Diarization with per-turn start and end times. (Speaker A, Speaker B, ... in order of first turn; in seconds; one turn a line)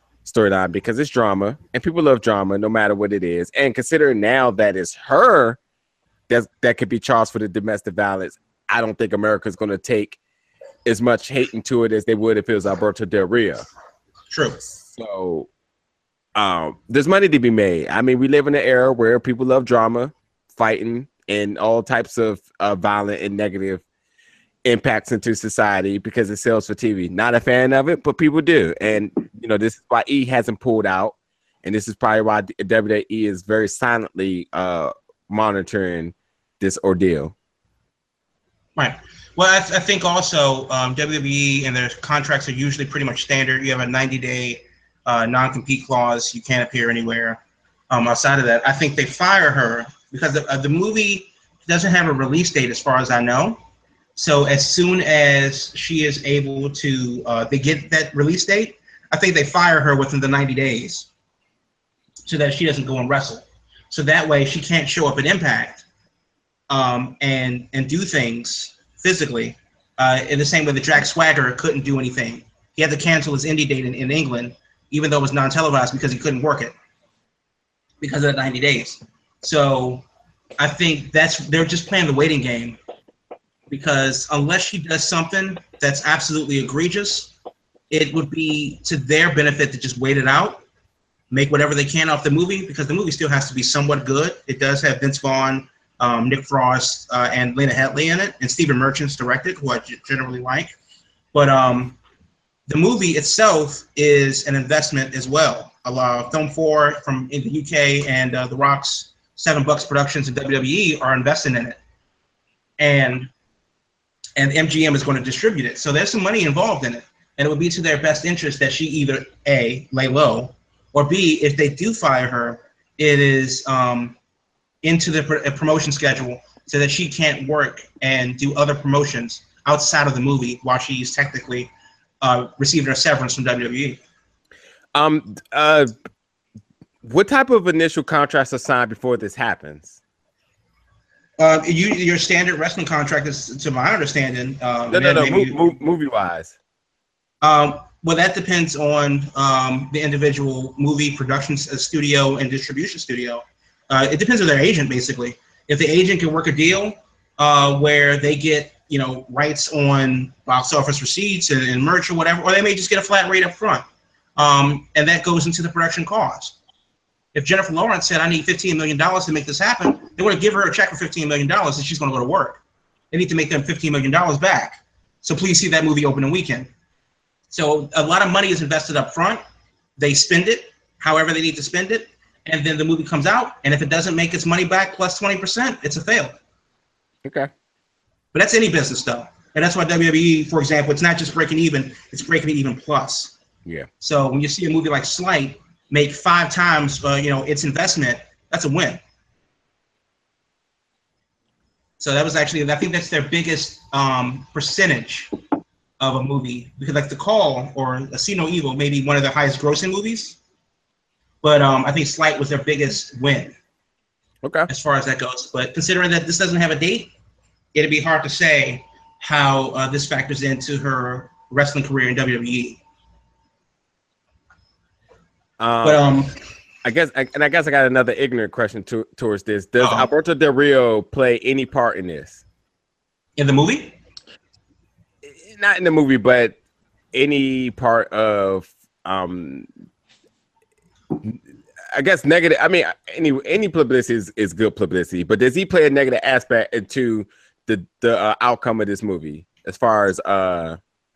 Speaker A: 0.2-5.6
Speaker A: 6.3-10.2
Speaker A: 10.8-13.6
Speaker B: 14.3-14.6
Speaker A: 14.8-15.5
Speaker A: 16.4-23.8
Speaker A: 24.6-37.3
Speaker B: 38.8-47.4
Speaker B: 47.9-53.6
Speaker B: 54.1-61.1
Speaker B: 62.2-65.8
Speaker B: 66.7-76.7
Speaker B: 78.0-80.0
Speaker B: 80.6-82.8
Speaker B: 83.7-87.3
Speaker B: 87.9-90.6
Speaker B: 91.3-100.7
Speaker B: 101.3-102.0
Speaker B: 102.7-111.8
Speaker B: 112.8-113.3
Speaker B: 114.3-124.2
Speaker B: 124.8-131.7
Speaker B: 132.2-134.0
Speaker A: 134.9-135.9
Speaker A: 137.0-139.9
Speaker B: 141.4-145.6
Speaker A: 144.9-146.5
Speaker B: 147.4-163.8
Speaker B: 164.4-166.5
Speaker B: 167.3-172.6
Speaker B: 173.1-176.7
Speaker B: 177.5-179.4
Speaker B: 180.0-186.4
Speaker A: 187.2-187.5
Speaker B: 188.3-193.3
Speaker B: 194.0-199.0
Speaker B: 202.0-205.3
Speaker B: 206.0-210.4
Speaker B: 211.4-213.5
Speaker A: 214.4-214.7
Speaker B: 214.7-217.1
Speaker B: 217.7-222.8
Speaker A: 225.6-226.0
Speaker B: 225.8-226.3
Speaker A: 226.8-232.4
Speaker B: 229.8-230.1
Speaker B: 233.4-234.0
Speaker A: 235.2-236.6
Speaker A: 237.1-239.7
Speaker A: 241.9-250.8